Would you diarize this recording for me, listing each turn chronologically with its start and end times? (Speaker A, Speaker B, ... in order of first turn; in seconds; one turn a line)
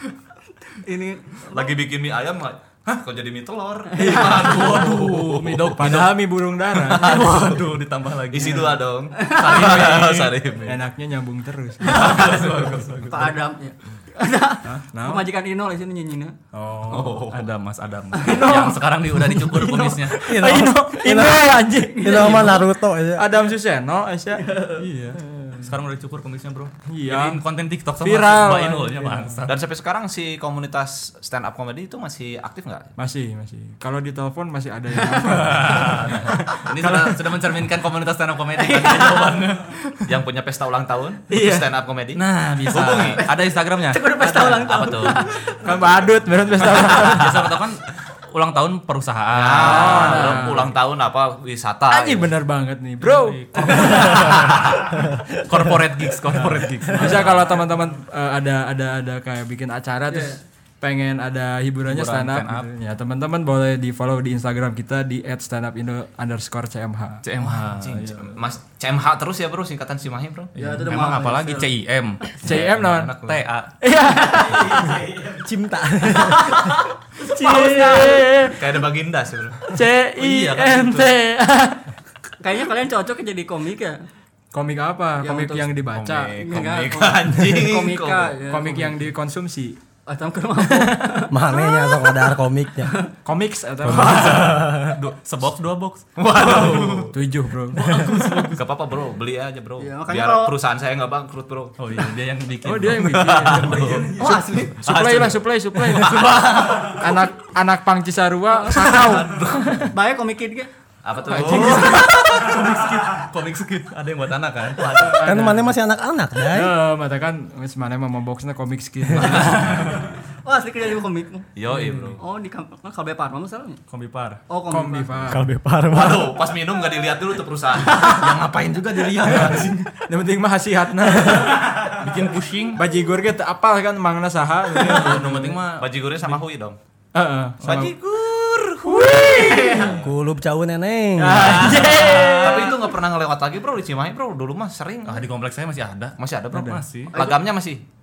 Speaker A: 0.8-1.8
Speaker B: 1.5-5.9
Speaker A: 3.9-4.6
Speaker C: 4.0-6.3
Speaker D: 4.0-4.7
Speaker D: 5.4-7.2
Speaker B: 6.8-7.7
Speaker C: 6.9-10.4
Speaker B: 8.3-10.8
Speaker A: 9.2-9.7
Speaker D: 10.7-12.1
Speaker C: 11.8-13.3
Speaker B: 11.9-12.9
Speaker A: 12.0-12.3
Speaker A: 13.1-16.4
Speaker D: 14.9-15.3
Speaker D: 16.5-17.2
Speaker B: 16.9-17.5
Speaker C: 16.9-20.3
Speaker A: 18.1-18.8
Speaker D: 18.3-18.6
Speaker D: 19.2-22.6
Speaker E: 20.2-23.3
Speaker A: 21.8-22.6
Speaker D: 23.2-25.7
Speaker A: 24.4-24.9
Speaker C: 25.6-29.6
Speaker D: 26.9-27.4
Speaker D: 28.0-29.4
Speaker B: 29.5-32.9
Speaker D: 33.0-37.2
Speaker C: 35.2-39.8
Speaker A: 38.6-39.4
Speaker B: 40.1-43.3
Speaker D: 41.3-41.7
Speaker C: 42.1-44.0
Speaker A: 42.8-45.8
Speaker B: 44.2-45.3
Speaker D: 44.3-44.6
Speaker D: 45.5-47.5
Speaker C: 46.9-50.7
Speaker B: 47.0-47.5
Speaker B: 49.3-52.3
Speaker D: 49.6-50.7
Speaker D: 51.9-54.3
Speaker C: 53.0-57.6
Speaker B: 53.8-54.9
Speaker E: 55.1-55.6
Speaker D: 56.9-67.2
Speaker A: 60.1-60.4
Speaker C: 61.9-62.7
Speaker C: 67.2-68.4
Speaker B: 67.4-70.5
Speaker A: 70.6-71.7
Speaker C: 70.6-73.7
Speaker D: 72.4-73.2
Speaker B: 72.5-73.4
Speaker D: 73.8-75.0
Speaker A: 74.1-75.0
Speaker B: 74.7-75.4
Speaker E: 75.4-76.7
Speaker A: 76.1-78.5
Speaker D: 77.3-78.7
Speaker B: 78.5-79.7
Speaker D: 79.7-81.8
Speaker C: 80.2-81.1
Speaker A: 82.4-84.0
Speaker D: 84.5-86.4
Speaker A: 85.2-85.8
Speaker B: 85.9-88.4
Speaker A: 86.3-88.9
Speaker D: 88.5-89.8
Speaker A: 90.1-93.1
Speaker D: 90.7-91.2
Speaker E: 91.3-93.0
Speaker D: 93.2-94.5
Speaker E: 93.8-95.0
Speaker C: 93.8-97.1
Speaker B: 94.1-94.5
Speaker B: 96.2-97.1
Speaker D: 97.1-98.0
Speaker C: 97.7-98.7
Speaker B: 98.5-101.8
Speaker A: 99.8-100.6
Speaker C: 101.8-104.7
Speaker D: 102.6-104.0
Speaker B: 103.0-107.1
Speaker A: 104.2-104.8
Speaker D: 104.8-106.3
Speaker C: 105.9-107.1
Speaker D: 107.0-109.8
Speaker A: 108.6-110.7
Speaker B: 108.7-109.9
Speaker B: 111.0-112.9
Speaker A: 111.2-112.1
Speaker C: 111.3-115.1
Speaker B: 114.8-115.3
Speaker D: 114.8-115.8
Speaker E: 115.2-116.7
Speaker D: 116.5-120.0
Speaker C: 119.2-120.1
Speaker B: 119.2-119.9
Speaker A: 120.3-121.5
Speaker B: 121.6-122.2
Speaker D: 121.7-122.1
Speaker A: 122.2-123.8
Speaker C: 123.9-124.4
Speaker A: 124.5-125.3
Speaker D: 124.7-125.4
Speaker E: 125.3-126.4
Speaker B: 125.9-128.4
Speaker C: 127.9-129.9
Speaker B: 129.2-129.7
Speaker D: 129.4-131.9
Speaker C: 131.5-132.8
Speaker D: 132.8-135.6
Speaker C: 134.8-136.4
Speaker B: 134.9-136.8
Speaker D: 137.1-137.9
Speaker B: 137.6-140.1
Speaker D: 138.8-140.0
Speaker A: 139.2-140.0
Speaker E: 140.0-141.8
Speaker D: 141.2-142.7
Speaker B: 141.4-145.3
Speaker C: 141.4-142.8
Speaker C: 145.1-147.2
Speaker B: 146.2-147.8
Speaker A: 147.1-147.4